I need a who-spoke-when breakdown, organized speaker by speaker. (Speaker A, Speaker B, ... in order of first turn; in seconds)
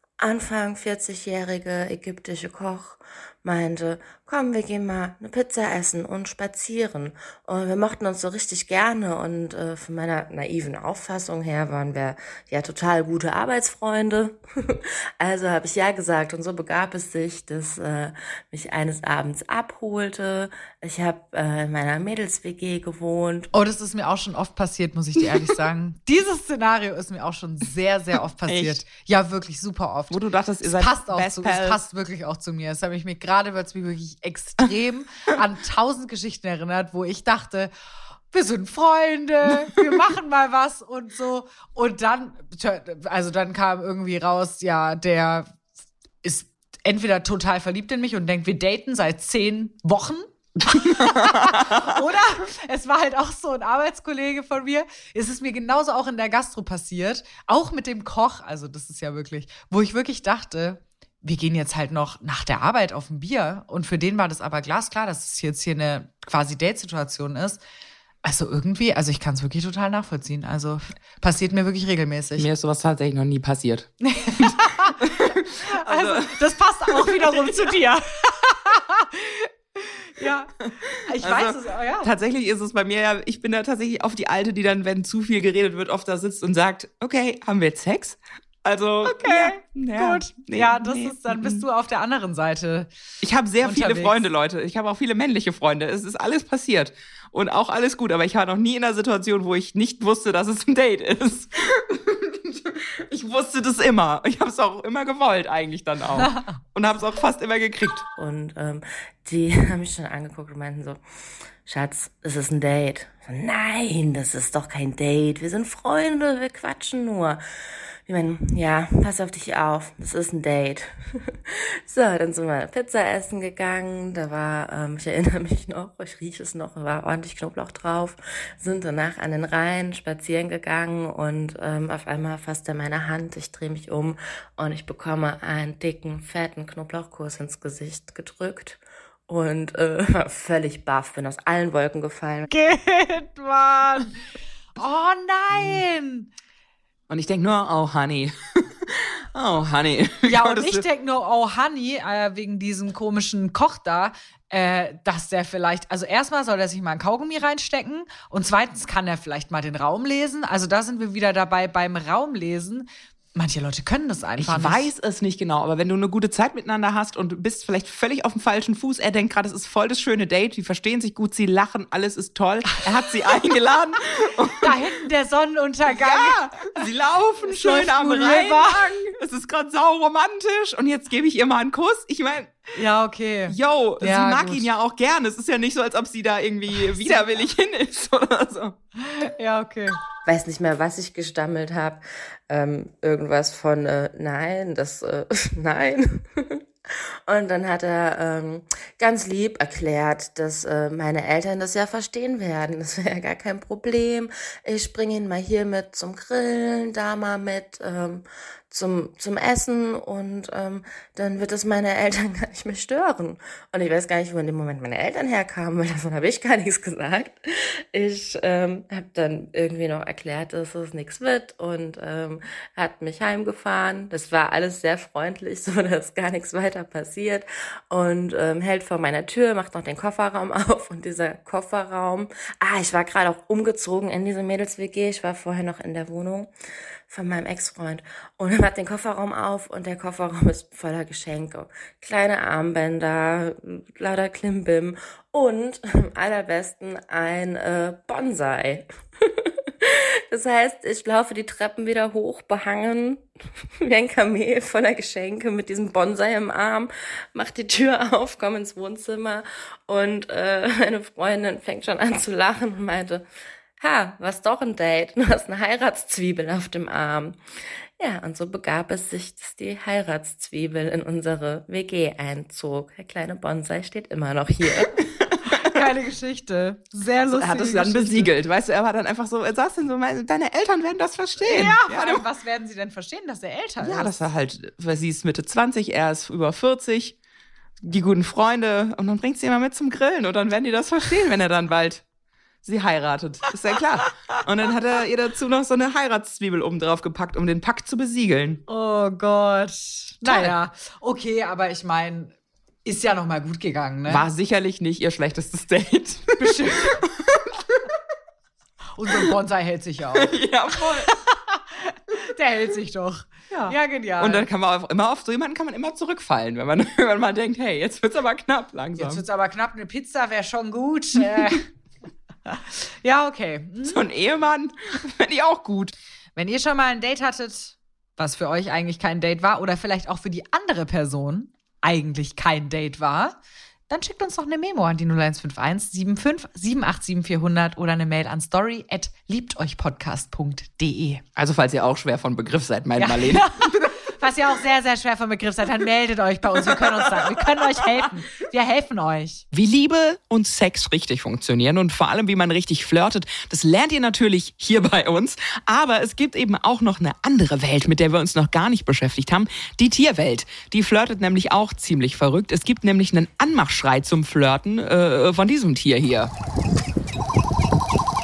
Speaker A: 0.2-23.5, 108.2-111.0, 111.6-117.4, 118.0-142.5, 190.2-196.6, 197.2-236.5, 237.1-253.2, 253.8-263.2, 263.8-274.9
Speaker B: 23.5-37.7, 38.3-45.5, 46.2-67.6, 68.2-72.5, 74.0-82.1, 89.0-92.9, 93.6-94.2, 142.5-144.1, 144.8-146.3, 150.2-164.9, 174.6-176.8, 177.5-178.9, 182.7-184.7, 186.8-187.2, 189.0-190.0, 275.4-278.3, 281.4-284.1, 298.7-304.2, 306.4-307.0, 308.9-314.5, 319.0-321.6, 322.4-324.0, 326.4-333.4, 333.9-341.2, 343.0-349.4
Speaker C: 28.5-28.8, 30.1-31.8, 51.3-51.8, 72.4-77.7, 80.8-91.6, 93.2-108.1, 147.1-150.8, 164.4-174.8, 175.9-182.7, 183.5-188.8, 277.3-282.2, 283.8-287.2, 287.8-292.0, 292.6-298.6, 300.2-300.5, 304.1-307.8, 310.1-311.1, 313.5-319.2, 323.8-325.9, 341.4-343.9, 349.5-366.3